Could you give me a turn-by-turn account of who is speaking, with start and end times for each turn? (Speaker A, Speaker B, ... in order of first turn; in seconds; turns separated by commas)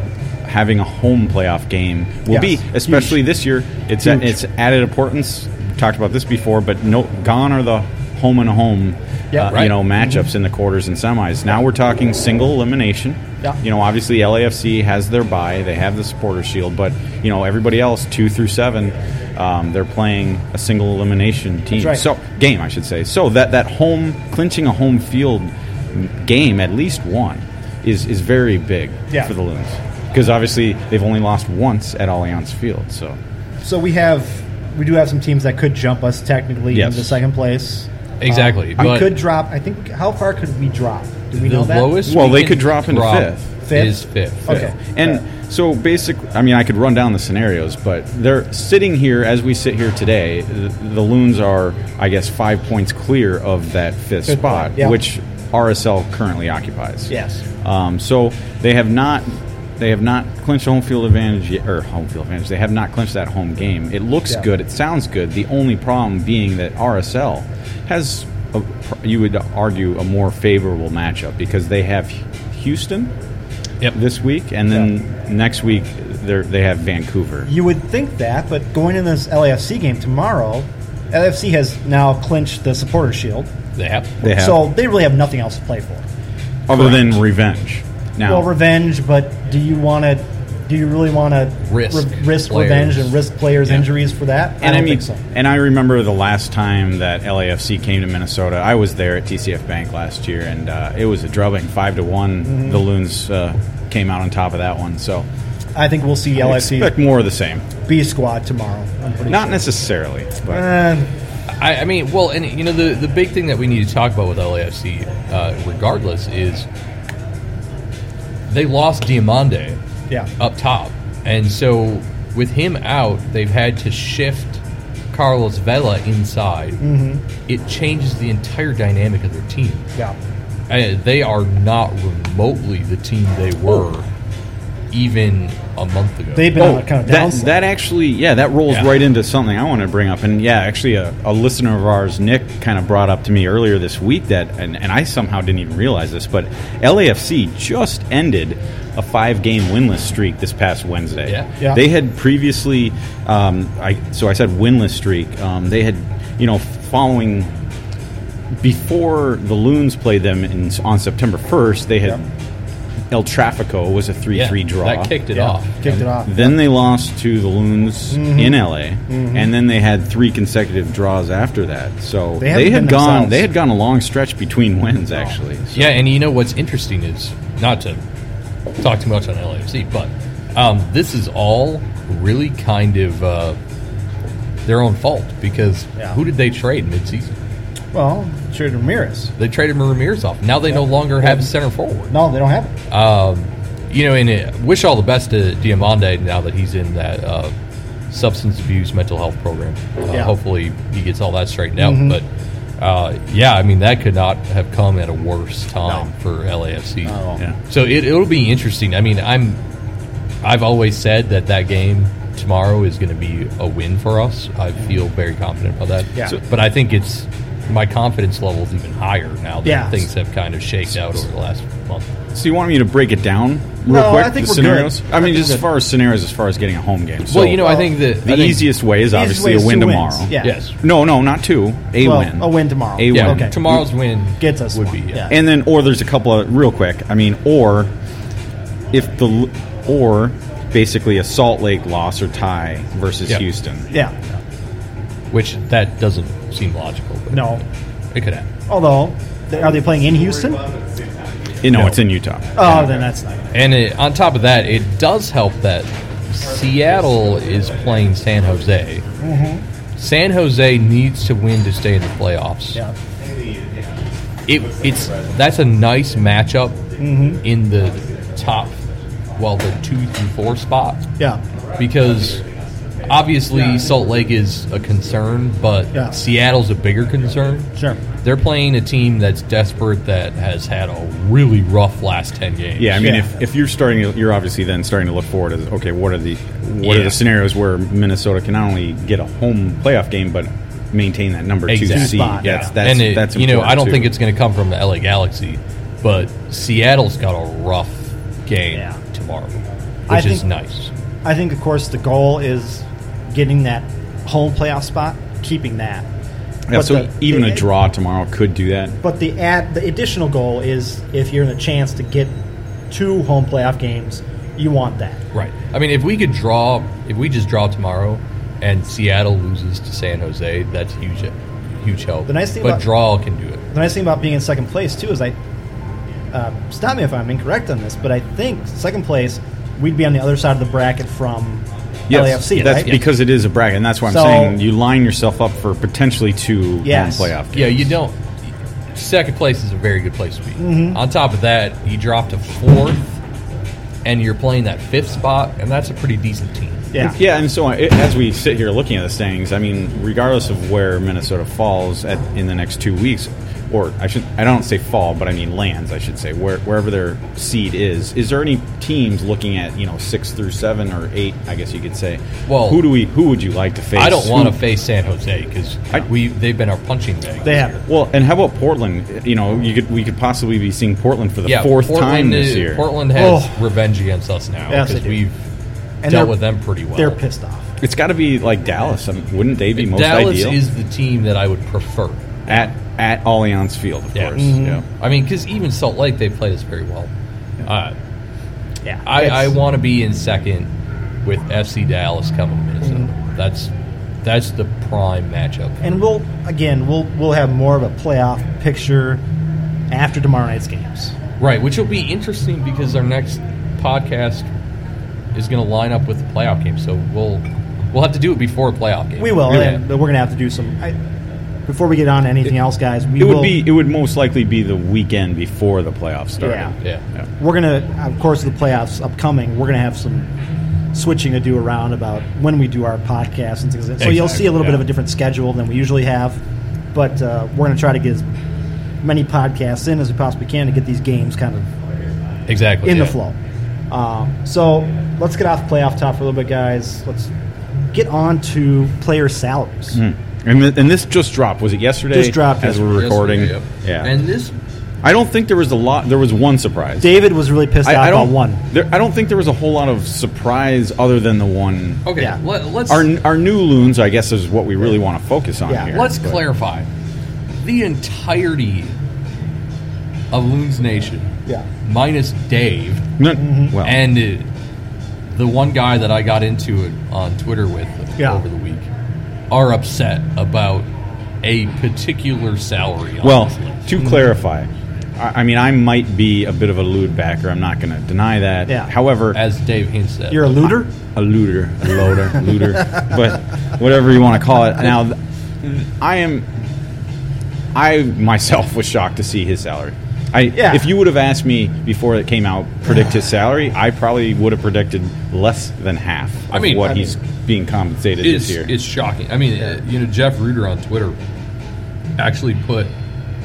Speaker A: 0.4-33.2, Speaker B: 2.3-3.2, Speaker B: 4.0-4.4, Speaker B: 9.3-10.3, Speaker C: 9.4-9.8, Speaker B: 21.8-22.0, Speaker B: 33.6-42.0, Speaker A: 36.7-37.2, Speaker C: 38.2-39.2, Speaker C: 41.3-44.7, Speaker A: 42.0-43.5, Speaker B: 43.6-45.2, Speaker A: 44.5-73.1, Speaker B: 54.3-55.0, Speaker B: 57.1-57.4, Speaker A: 73.9-77.5, Speaker B: 77.5-83.5, Speaker C: 83.8-84.1, Speaker A: 84.2-84.7, Speaker B: 84.2-86.0, Speaker A: 86.7-88.5, Speaker B: 86.7-87.2, Speaker B: 88.2-95.2, Speaker C: 91.7-93.2, Speaker A: 94.6-105.3, Speaker B: 102.4-102.8, Speaker B: 105.8-107.0, Speaker A: 106.4-107.7, Speaker B: 107.8-109.7, Speaker A: 109.3-110.6, Speaker B: 110.5-111.1, Speaker C: 111.5-116.7, Speaker C: 118.5-119.8, Speaker C: 120.4-126.8, Speaker B: 126.8-127.2, Speaker C: 127.5-129.9, Speaker C: 130.7-134.1, Speaker C: 134.9-136.7, Speaker B: 136.4-137.6, Speaker A: 136.6-157.5, Speaker C: 151.3-151.5, Speaker A: 158.6-162.2, Speaker A: 163.1-165.1, Speaker C: 164.3-166.1, Speaker B: 165.3-166.6, Speaker A: 166.2-176.0, Speaker B: 168.1-169.5, Speaker B: 172.4-173.5, Speaker C: 175.7-178.0, Speaker C: 178.8-183.6, Speaker C: 184.7-187.3, Speaker B: 187.9-189.3, Speaker C: 189.4-192.2, Speaker B: 190.7-191.5, Speaker B: 192.1-192.7, Speaker C: 192.9-197.6, Speaker C: 198.1-202.3, Speaker B: 201.8-202.2, Speaker C: 202.8-209.6, Speaker B: 207.1-207.4, Speaker C: 210.4-222.1, Speaker B: 219.7-220.1, Speaker A: 220.9-221.2, Speaker A: 222.3-233.8, Speaker B: 223.9-225.7, Speaker C: 227.3-228.7, Speaker B: 227.6-227.9, Speaker B: 229.1-230.6, Speaker C: 230.4-230.8, Speaker B: 232.0-233.6, Speaker C: 233.1-235.3, Speaker B: 234.4-235.4, Speaker A: 235.3-237.9, Speaker A: 238.9-243.9, Speaker B: 243.9-244.3, Speaker C: 245.3-248.5, Speaker B: 247.3-247.6, Speaker B: 248.7-250.8, Speaker A: 251.6-253.0, Speaker C: 251.7-252.0, Speaker B: 252.6-253.4, Speaker C: 253.5-259.1, Speaker B: 259.2-259.6, Speaker C: 260.0-262.8, Speaker C: 264.5-266.8, Speaker B: 267.0-267.4, Speaker C: 267.4-268.8, Speaker C: 269.4-271.1, Speaker C: 271.8-272.4, Speaker C: 273.0-283.2, Speaker B: 273.5-273.8, Speaker B: 277.8-278.0, Speaker A: 282.8-294.1, Speaker B: 283.0-283.4, Speaker C: 286.8-287.2, Speaker C: 291.7-300.9, Speaker B: 291.9-292.7, Speaker B: 300.1-300.4, Speaker B: 301.2-306.1, Speaker A: 306.7-309.0, Speaker B: 306.7-307.6, Speaker B: 309.0-312.4, Speaker B: 312.9-315.2, Speaker C: 315.3-323.6, Speaker B: 322.3-322.9, Speaker B: 323.7-325.4, Speaker B: 326.3-332.9, Speaker A: 332.1-337.9, Speaker C: 332.6-333.0, Speaker B: 334.1-334.6, Speaker B: 336.8-337.4, Speaker C: 337.5-338.4, Speaker C: 338.9-343.2, Speaker B: 340.6-341.0, Speaker C: 344.0-346.9, Speaker A: 347.0-364.6, Speaker C: 362.5-362.9, Speaker C: 363.9-367.8, Speaker B: 367.4-367.8, Speaker A: 367.9-372.9, Speaker C: 371.4-375.4, Speaker B: 373.1-373.6, Speaker B: 374.7-375.2, Speaker B: 376.0-376.4, Speaker C: 376.1-377.2, Speaker B: 376.9-377.7, Speaker A: 377.8-380.6, Speaker C: 379.8-382.2, Speaker A: 382.5-384.8, Speaker C: 384.1-384.4, Speaker B: 384.4-384.8, Speaker C: 384.9-387.1, Speaker C: 387.6-387.9, Speaker B: 388.8-389.5, Speaker C: 389.1-390.7, Speaker C: 391.2-393.7, Speaker C: 394.2-395.8, Speaker B: 395.8-399.2, Speaker B: 399.9-401.1, Speaker C: 401.4-404.5, Speaker C: 405.3-409.8, Speaker B: 409.2-411.0, Speaker B: 411.7-413.6, Speaker A: 413.2-417.2, Speaker B: 416.4-416.7, Speaker B: 417.4-420.3, Speaker B: 420.9-426.4, Speaker C: 424.0-424.8, Speaker B: 426.9-428.3, Speaker B: 429.0-431.7, Speaker C: 432.5-433.2, Speaker B: 432.8-433.4, Speaker B: 433.9-437.3, Speaker B: 437.9-440.0, Speaker A: 439.9-444.1, Speaker B: 442.1-442.9, Speaker C: 442.8-444.6, Speaker A: 445.0-447.3, Speaker B: 447.0-448.6, Speaker A: 447.8-452.1, Speaker C: 452.1-453.1, Speaker A: 452.9-456.4, Speaker B: 455.7-456.0, Speaker C: 455.9-456.9, Speaker C: 457.6-459.0, Speaker C: 460.3-461.3, Speaker C: 461.8-463.1, Speaker A: 463.2-464.1, Speaker B: 463.4-463.8, Speaker C: 463.8-464.5, Speaker C: 465.3-468.9, Speaker C: 469.5-470.9, Speaker C: 471.4-473.9, Speaker A: 473.2-479.4, Speaker B: 474.0-474.3, Speaker B: 478.7-478.9, Speaker C: 479.3-480.7, Speaker B: 480.3-480.9, Speaker A: 481.1-486.5, Speaker A: 487.7-498.7, Speaker B: 490.5-490.9, Speaker C: 496.5-496.9, Speaker B: 496.8-497.1, Speaker C: 498.2-501.2, Speaker C: 502.2-502.9